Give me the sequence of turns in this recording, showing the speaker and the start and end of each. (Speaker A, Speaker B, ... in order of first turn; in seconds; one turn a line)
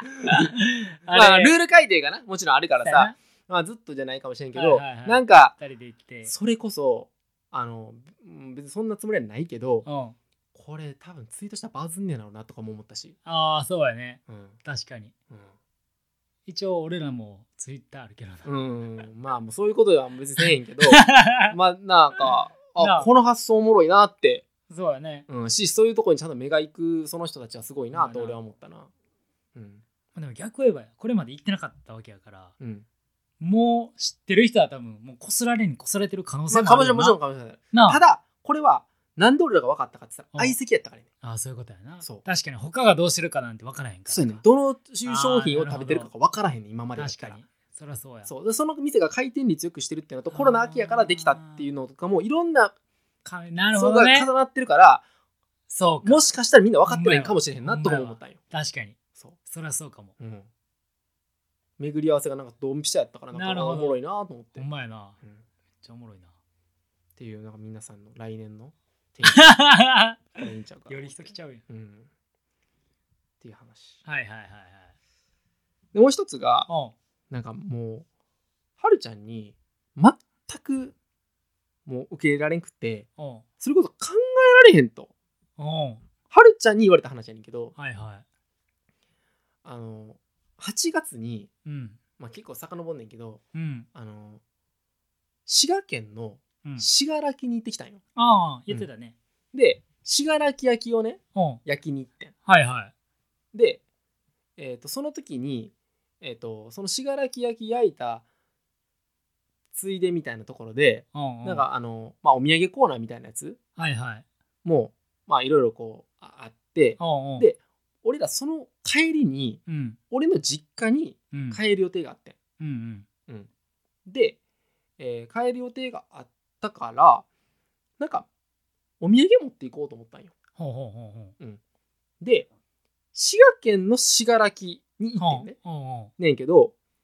Speaker A: 0.3-1.5
Speaker B: 1.1-5.5
Speaker A: 2.8-3.1
Speaker A: 4.5-6.3
Speaker B: 6.3-9.9
Speaker A: 9.9-10.2
Speaker B: 10.5-13.2
Speaker A: 13.2-15.1
Speaker B: 14.3-14.6
Speaker A: 16.5-18.5
Speaker B: 18.4-24.4
Speaker A: 20.9-21.6
Speaker A: 22.8-23.1
Speaker A: 24.7-25.3
Speaker B: 25.3-28.9
Speaker A: 27.9-28.4
Speaker B: 29.6-29.8
Speaker A: 30.1-32.5
Speaker B: 32.6-32.9
Speaker A: 33.4-37.2
Speaker B: 36.5-41.1
Speaker A: 37.7-38.0
Speaker A: 41.2-44.4
Speaker B: 44.1-47.4
Speaker A: 45.0-46.1
Speaker A: 47.0-48.3
Speaker B: 48.3-52.7
Speaker A: 50.3-51.7
Speaker A: 53.2-54.3
Speaker B: 53.7-55.0
Speaker A: 55.7-56.2
Speaker B: 56.0-58.4
Speaker A: 56.9-60.1
Speaker B: 60.2-60.5
Speaker B: 61.8-64.7
Speaker A: 63.3-64.0
Speaker A: 64.6-65.2
Speaker A: 65.8-66.3
Speaker B: 67.2-69.7
Speaker A: 69.3-70.4
Speaker B: 70.3-72.1
Speaker A: 70.9-71.6
Speaker B: 73.4-74.0
Speaker A: 74.0-74.9
Speaker B: 75.9-76.7
Speaker A: 76.7-76.9
Speaker B: 77.3-78.1
Speaker B: 78.8-81.0
Speaker B: 81.9-83.1
Speaker A: 83.2-83.5
Speaker B: 83.6-85.1
Speaker A: 85.6-86.0
Speaker B: 86.3-87.7
Speaker A: 87.8-88.2
Speaker B: 89.7-91.5
Speaker A: 91.7-92.0
Speaker B: 92.2-93.4
Speaker A: 93.5-93.9
Speaker B: 93.9-94.4
Speaker B: 95.5-98.0
Speaker A: 98.2-99.2
Speaker B: 99.5-102.3
Speaker A: 101.3-101.6
Speaker A: 102.5-102.9
Speaker B: 103.5-103.8
Speaker B: 104.6-108.2
Speaker B: 109.7-113.6
Speaker A: 111.1-111.7
Speaker A: 113.8-114.2
Speaker B: 114.6-122.4
Speaker A: 117.0-117.5
Speaker A: 119.7-120.0
Speaker A: 121.3-121.6
Speaker A: 122.6-123.1
Speaker B: 124.1-124.4
Speaker B: 125.0-127.3
Speaker B: 128.0-128.3
Speaker B: 129.0-130.3
Speaker A: 130.6-131.3
Speaker B: 132.2-132.5
Speaker B: 133.1-135.6
Speaker A: 135.2-136.1
Speaker B: 136.2-136.7